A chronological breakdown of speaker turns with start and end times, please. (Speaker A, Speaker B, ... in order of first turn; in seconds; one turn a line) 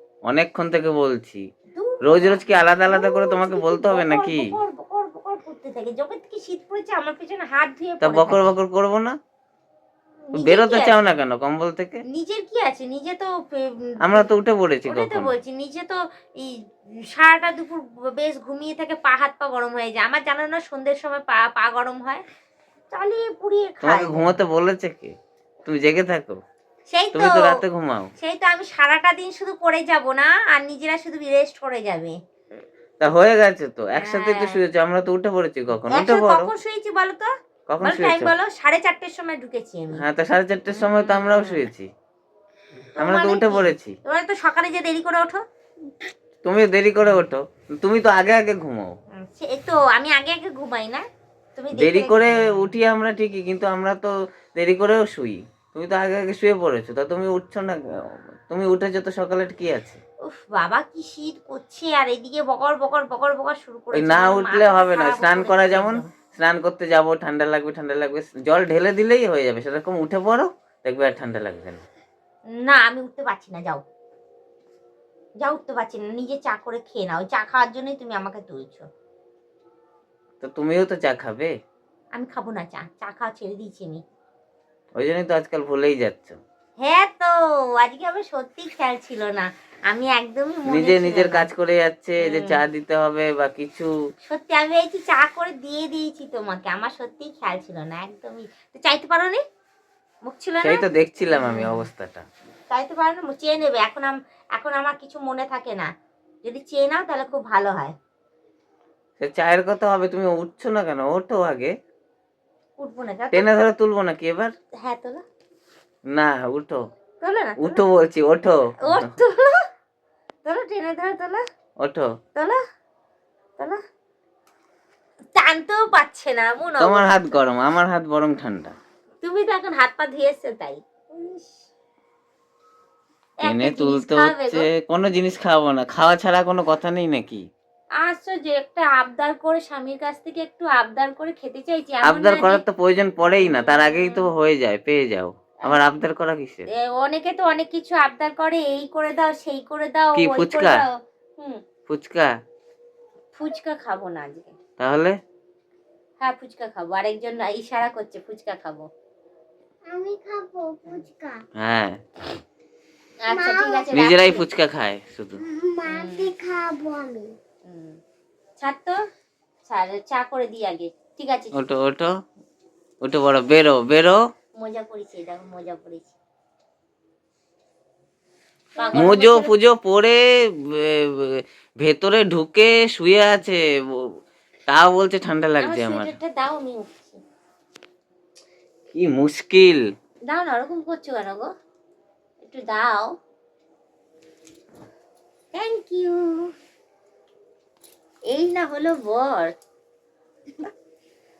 Speaker A: 0.3-1.4
Speaker B: 1.8-8.6
Speaker A: 2.0-4.5
Speaker A: 8.0-9.1
Speaker B: 10.3-11.0
Speaker A: 10.4-12.0
Speaker B: 12.1-14.3
Speaker A: 14.0-15.3
Speaker B: 14.9-16.5
Speaker B: 17.1-22.2
Speaker B: 22.9-24.4
Speaker A: 23.8-25.1
Speaker A: 25.6-26.4
Speaker B: 26.9-27.6
Speaker A: 27.1-28.1
Speaker B: 28.2-32.1
Speaker A: 33.0-36.5
Speaker B: 33.9-34.6
Speaker B: 35.9-37.3
Speaker A: 37.7-38.3
Speaker B: 37.8-40.0
Speaker A: 39.9-41.9
Speaker B: 40.7-41.7
Speaker B: 43.0-45.4
Speaker A: 43.0-44.0
Speaker A: 46.4-48.9
Speaker B: 49.2-51.0
Speaker B: 51.5-52.7
Speaker A: 51.7-60.0
Speaker B: 60.2-66.1
Speaker A: 63.9-71.8
Speaker B: 72.6-73.8
Speaker B: 75.4-78.8
Speaker A: 80.4-81.5
Speaker B: 82.1-84.0
Speaker A: 85.0-86.4
Speaker B: 86.8-91.5
Speaker A: 90.7-93.9
Speaker B: 92.2-92.6
Speaker B: 94.3-99.4
Speaker B: 100.2-101.9
Speaker A: 100.6-102.2
Speaker B: 102.7-105.9
Speaker B: 106.4-107.9
Speaker A: 109.2-111.7
Speaker B: 112.8-113.5
Speaker A: 113.3-114.5
Speaker B: 114.8-115.2
Speaker A: 116.1-116.8
Speaker B: 117.2-117.8
Speaker A: 117.6-119.1
Speaker B: 118.8-119.6
Speaker B: 120.4-121.4
Speaker A: 121.8-122.1
Speaker B: 125.3-127.4
Speaker A: 126.8-128.8
Speaker B: 129.2-131.6
Speaker B: 133.4-134.7
Speaker A: 133.4-137.4
Speaker B: 138.0-142.6
Speaker A: 142.0-146.7
Speaker B: 143.3-144.3
Speaker B: 146.7-151.6
Speaker A: 150.1-150.8
Speaker A: 151.9-152.3
Speaker B: 153.3-154.5
Speaker A: 154.8-155.2
Speaker B: 156.2-158.8
Speaker C: 159.9-161.4
Speaker A: 161.6-162.0
Speaker B: 163.2-164.5
Speaker C: 163.3-163.9
Speaker A: 163.9-165.4
Speaker C: 165.4-167.3
Speaker B: 165.8-166.3
Speaker B: 167.6-168.0
Speaker B: 168.6-169.0
Speaker B: 169.7-171.5
Speaker A: 171.5-172.1
Speaker A: 173.0-174.2
Speaker B: 174.6-176.2
Speaker B: 178.8-179.5
Speaker A: 178.9-184.1
Speaker A: 184.7-186.1
Speaker B: 185.6-187.2
Speaker A: 188.9-189.8
Speaker B: 190.3-191.5
Speaker B: 192.4-193.1
Speaker B: 195.5-196.5
Speaker B: 198.3-199.5